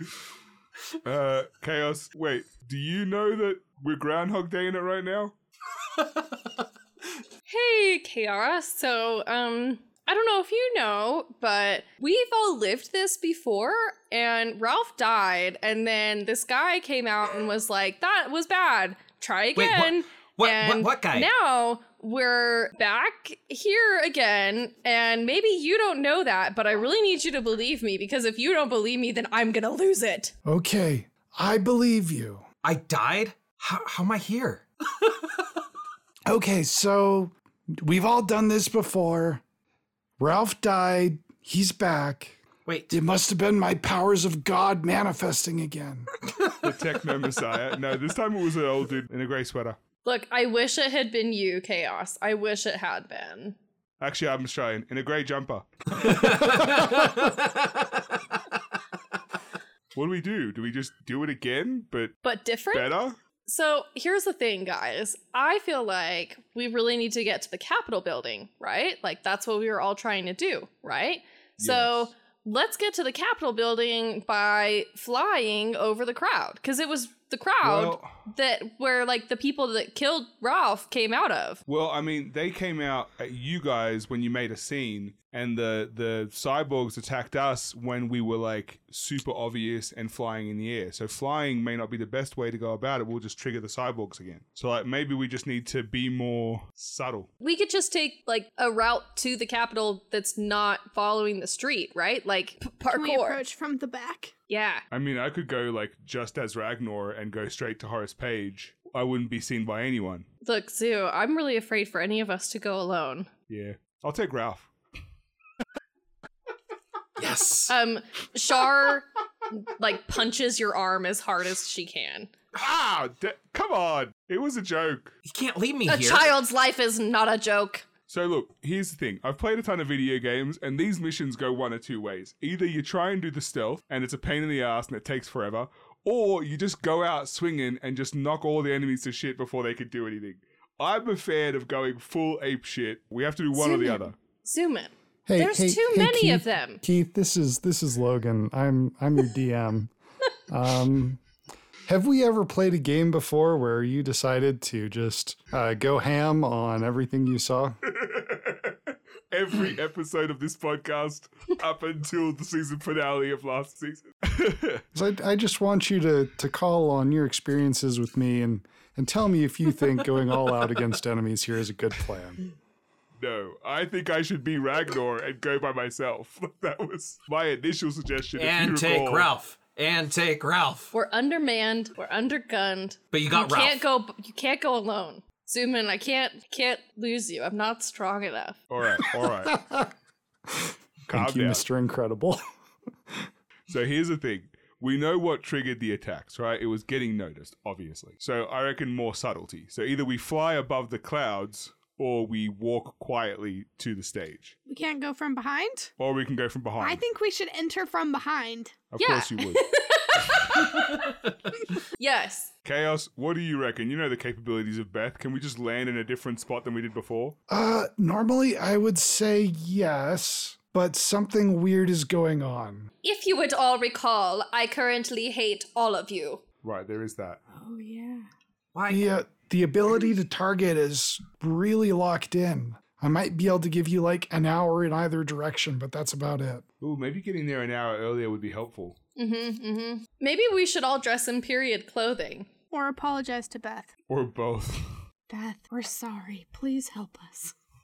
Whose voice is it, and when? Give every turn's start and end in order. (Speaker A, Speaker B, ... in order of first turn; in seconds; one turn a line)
Speaker A: 1.0-5.3
Speaker B: 7.5-30.3
Speaker C: 19.6-21.3
Speaker D: 30.4-32.4
Speaker C: 32.6-35.1
Speaker D: 36.3-39.4
Speaker D: 40.2-46.1
Speaker C: 42.6-43.0
Speaker A: 46.6-49.8
Speaker B: 50.0-53.5
Speaker A: 54.0-56.1
Speaker C: 56.0-57.5
Speaker A: 59.9-62.2
Speaker B: 62.2-81.6
Speaker A: 62.7-63.2
Speaker A: 71.6-72.1
Speaker A: 77.6-78.2
Speaker A: 81.7-97.3
Speaker B: 97.4-103.4
Speaker E: 102.9-104.3
Speaker B: 104.5-104.8
Speaker A: 104.9-110.3
Speaker B: 110.4-113.3
Speaker A: 113.5-114.7
Speaker C: 117.2-117.7
Speaker B: 117.7-122.3
Speaker A: 122.5-125.1
Speaker C: 125.2-126.3
Speaker B: 125.9-127.8
Speaker A: 128.1-144.2
Speaker B: 143.5-146.8
Speaker D: 145.2-149.9
Speaker D: 150.5-151.2
Speaker D: 151.8-157.8
Speaker A: 157.8-164.8
Speaker D: 164.9-172.4
Speaker A: 173.2-179.3
Speaker C: 178.3-180.9
Speaker B: 180.9-188.6
Speaker C: 183.1-183.8
Speaker A: 188.7-189.5
Speaker D: 189.0-189.9
Speaker D: 190.5-192.4
Speaker A: 191.1-191.6
Speaker A: 193.7-204.6
Speaker E: 204.7-205.9
Speaker A: 206.0-207.0
Speaker E: 206.8-208.9
Speaker A: 208.9-209.6
Speaker B: 209.0-211.1
Speaker B: 212.0-212.5
Speaker A: 212.6-217.4
Speaker D: 217.5-222.9
Speaker B: 223.0-226.4
Speaker A: 226.6-227.4
Speaker E: 227.5-228.3
Speaker C: 228.7-229.1
Speaker D: 228.9-236.6
Speaker A: 236.8-239.0
Speaker B: 239.2-242.5
Speaker E: 242.7-243.9
Speaker A: 244.1-244.9
Speaker E: 245.3-247.5